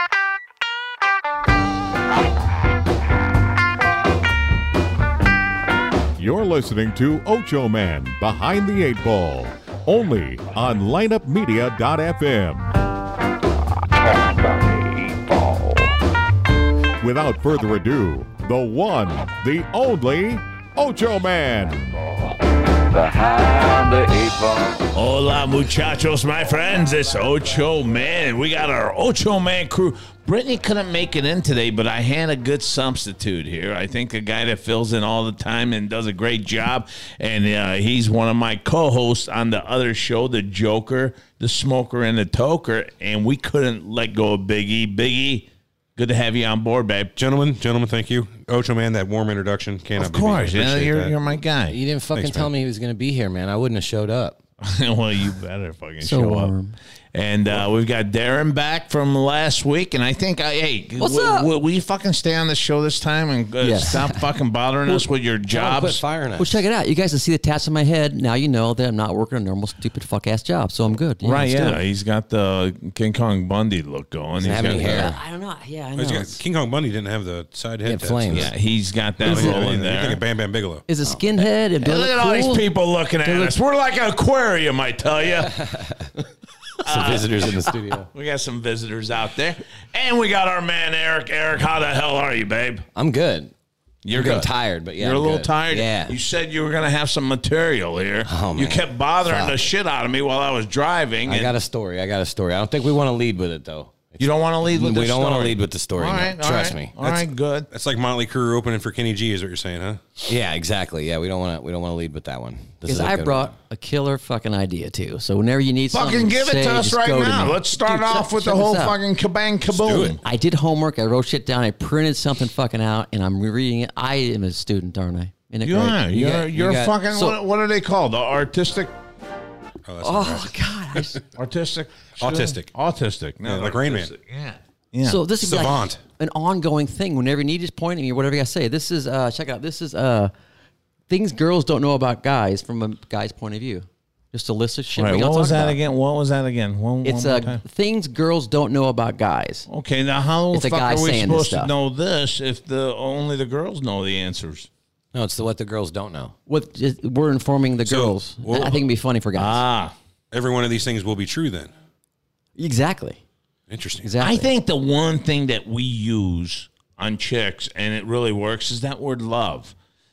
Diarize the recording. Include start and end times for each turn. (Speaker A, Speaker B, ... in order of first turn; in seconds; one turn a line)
Speaker A: 6.2-12.8
Speaker B: 14.1-15.9
Speaker A: 17.0-21.9
Speaker B: 22.9-24.8
Speaker C: 24.9-47.1
Speaker D: 47.2-51.1
Speaker C: 50.0-51.8
Speaker E: 51.7-54.4
Speaker D: 52.1-52.5
Speaker C: 54.6-56.5
Speaker F: 56.0-56.8
Speaker C: 57.1-66.0
Speaker F: 61.0-61.5
Speaker F: 63.6-64.2
Speaker E: 65.5-66.6
Speaker F: 66.4-71.8
Speaker C: 71.2-75.1
Speaker E: 74.4-75.2
Speaker F: 74.6-76.4
Speaker D: 76.0-78.5
Speaker E: 77.8-78.5
Speaker C: 78.3-80.2
Speaker D: 79.2-80.8
Speaker F: 80.9-82.7
Speaker C: 81.8-85.5
Speaker F: 83.2-83.5
Speaker E: 85.3-86.0
Speaker E: 86.8-88.1
Speaker C: 86.8-92.9
Speaker E: 93.0-93.5
Speaker C: 94.0-101.5
Speaker E: 94.1-96.2
Speaker E: 98.3-99.7
Speaker E: 101.2-107.2
Speaker C: 104.2-107.7
Speaker D: 107.7-110.0
Speaker E: 110.3-113.5
Speaker F: 112.8-119.0
Speaker C: 115.9-120.2
Speaker D: 119.7-120.2
Speaker F: 120.2-126.5
Speaker C: 125.6-128.9
Speaker E: 126.4-127.0
Speaker F: 127.1-127.4
Speaker D: 129.9-131.2
Speaker F: 130.0-131.2
Speaker C: 131.4-135.2
Speaker D: 132.2-132.7
Speaker D: 133.4-134.1
Speaker F: 135.0-140.3
Speaker D: 135.3-136.0
Speaker F: 141.1-145.8
Speaker C: 145.0-147.6
Speaker F: 147.0-149.7
Speaker C: 149.7-154.7
Speaker F: 150.5-151.7
Speaker E: 155.1-156.3
Speaker F: 156.5-159.6
Speaker D: 157.9-158.8
Speaker C: 159.4-159.9
Speaker D: 160.3-161.7
Speaker F: 162.6-163.2
Speaker D: 163.7-164.1
Speaker F: 164.0-164.5
Speaker C: 164.2-169.8